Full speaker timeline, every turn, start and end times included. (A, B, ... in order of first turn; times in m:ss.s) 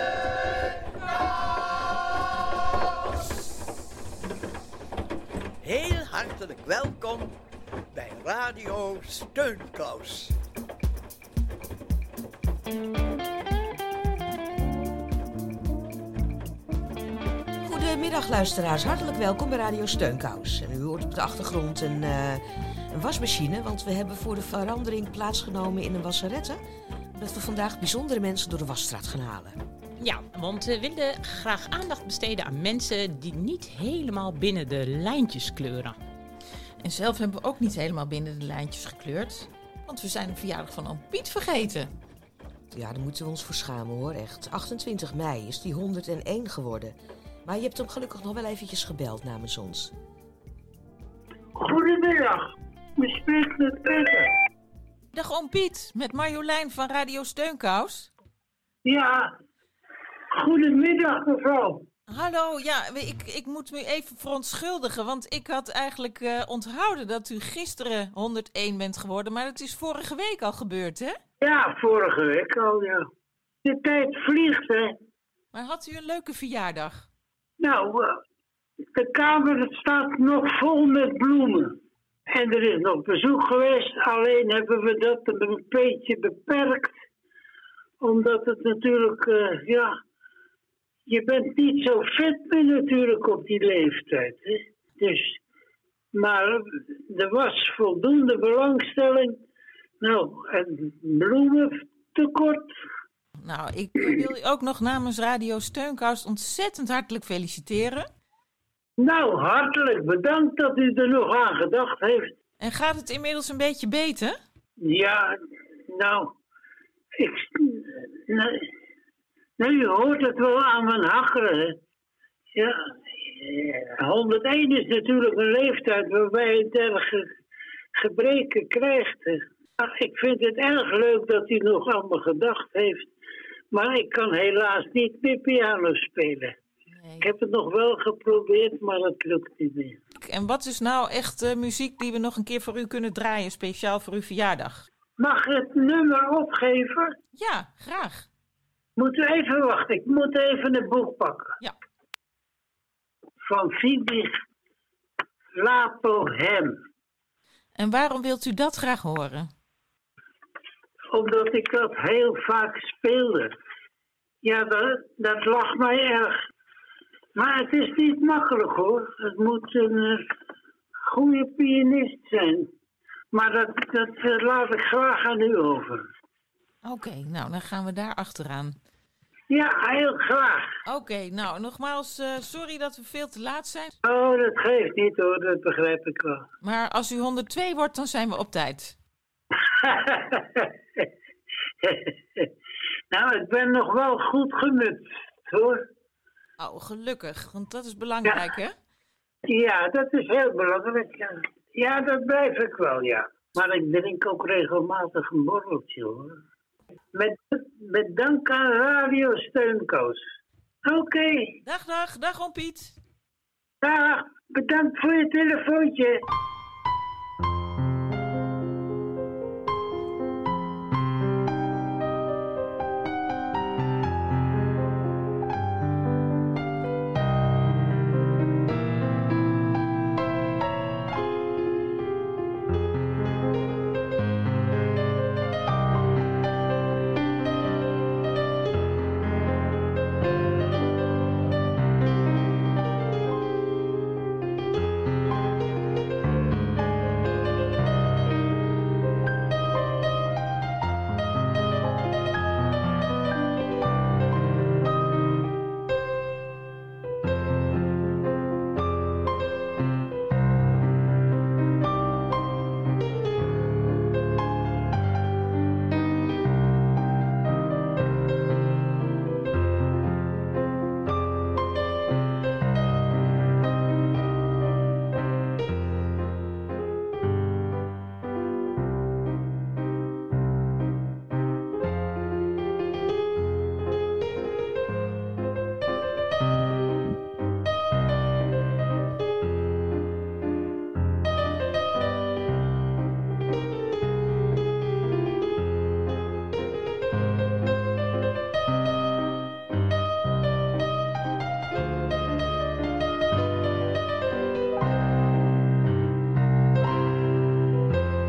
0:01.4-0:01.8 A
0:05.6-0:07.3 A
0:07.9-0:10.3 A
0:17.6-0:26.6 B
0:27.1-0:29.6 B
0:30.0-0:36.0 C
0:36.8-0:41.9 D
0:42.7-0:49.9 B
0:51.6-0:52.4 E
0:53.0-0:54.3 E
0:55.1-0:58.1 D
0:58.8-0:59.3 E
1:00.3-1:01.8 E
1:02.1-1:11.2 D
1:11.4-1:13.1 E
1:13.6-1:15.0 E
1:15.5-1:17.1 D
1:17.6-1:18.2 E
1:18.9-1:21.8 E
1:22.3-1:26.9 E
1:28.0-1:29.9 E
1:31.1-1:35.4 E
1:36.1-1:39.4 E
1:40.0-1:42.7 E
1:43.4-1:48.1 D
1:49.0-1:52.3 E
1:52.6-1:54.4 D
1:54.8-1:55.3 E
1:55.9-1:56.3 E
1:57.2-1:58.7 E
1:59.6-2:01.8 E
2:02.5-2:07.3 E
2:08.0-2:13.1 E
2:13.7-2:16.5 E
2:16.9-2:17.3 D
2:17.2-2:20.0 E
2:20.2-2:24.9 D
2:25.2-2:27.1 E
2:27.3-2:28.3 D
2:29.0-2:31.5 E
2:33.4-2:34.4 E
2:35.5-2:36.8 E
2:37.8-2:39.5 D
2:41.1-2:43.5 E
2:44.4-2:46.4 E
2:47.3-2:50.3 E
2:51.1-2:52.7 E
2:53.3-2:56.0 E
2:56.8-2:58.8 D
2:59.5-3:00.6 E
3:00.8-3:03.9 D
3:04.0-3:06.4 E
3:06.6-3:08.9 D
3:09.7-3:11.1 E
3:11.8-3:12.5 E
3:13.1-3:15.8 E
3:16.6-3:18.8 D
3:19.4-3:26.4 E
3:27.1-3:30.2 E
3:30.8-3:31.5 E
3:31.6-3:32.9 D
3:33.8-3:36.2 E